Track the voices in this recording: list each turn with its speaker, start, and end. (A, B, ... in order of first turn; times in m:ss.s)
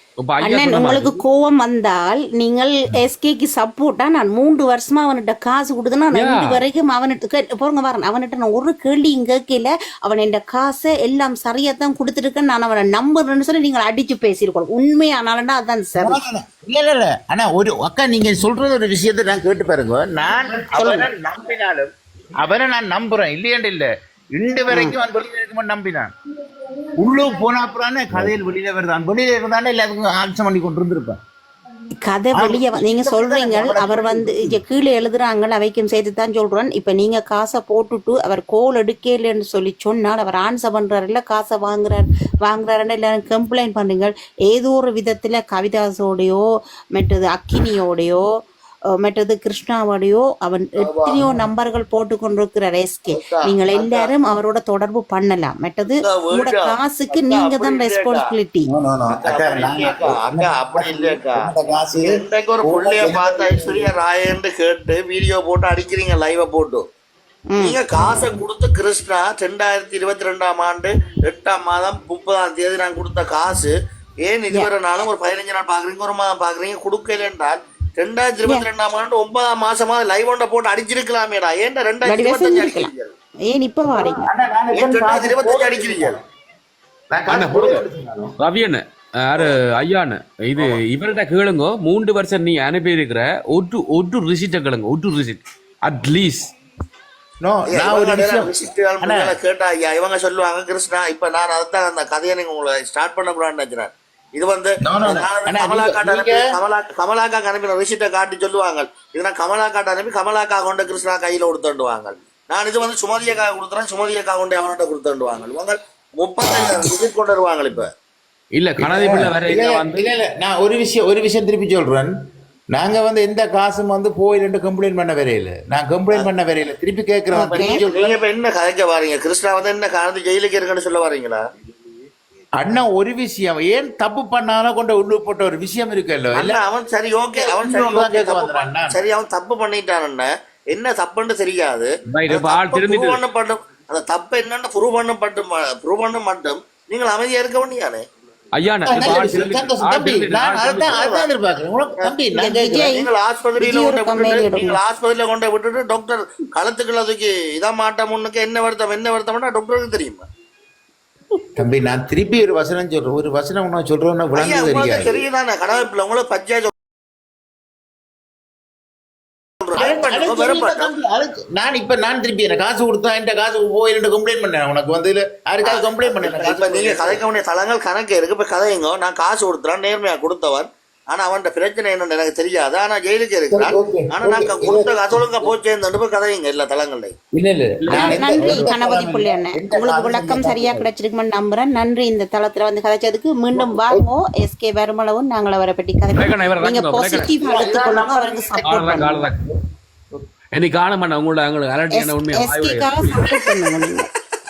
0:00.2-0:01.2 A
0:00.4-0:16.2 B
0:06.1-0:06.6 A
0:16.0-0:26.1 C
0:20.7-0:21.1 B
0:27.0-0:31.2 C
0:32.0-0:46.4 B
0:32.3-0:34.6 C
0:46.9-0:48.2 B
0:49.0-0:58.7 B
0:50.8-0:51.2 D
0:53.1-0:54.1 D
0:56.0-0:58.3 D
0:58.7-1:03.9 C
0:59.1-1:01.5 D
1:02.0-1:06.8 D
1:07.5-1:08.3 B
1:07.6-1:23.1 D
1:22.0-1:22.9 B
1:23.5-1:24.2 B
1:23.9-1:26.2 C
1:24.7-1:26.2 D
1:27.1-1:28.3 C
1:27.3-1:27.8 A
1:28.4-1:36.5 A
1:37.4-1:39.3 C
1:37.7-1:57.9 D
1:44.8-1:46.4 C
1:56.4-1:56.9 C
1:58.5-2:00.1 A
1:58.8-2:02.1 C
2:02.7-2:08.2 C
2:07.3-2:07.8 B
2:07.6-2:11.4 D
2:12.6-2:16.6 C
2:16.3-2:28.0 D
2:17.3-2:19.0 C
2:22.1-2:23.2 A
2:28.5-2:31.0 A
2:28.8-2:32.9 C
2:30.9-2:31.3 D
2:32.4-2:33.1 B
2:32.8-2:40.2 D
2:33.6-2:34.8 B
2:41.6-2:45.2 C
2:44.3-2:46.7 D
2:49.6-2:50.9 D
2:49.8-2:57.2 C
2:55.6-3:07.1 D
3:03.5-3:05.2 C
3:07.3-3:10.9 C
3:07.8-3:08.7 A
3:07.9-3:19.2 B
3:13.5-3:14.0 C
3:16.1-3:17.4 A
3:17.4-3:19.6 C
3:18.6-3:19.4 A
3:20.5-3:23.3 A
3:21.9-3:24.1 B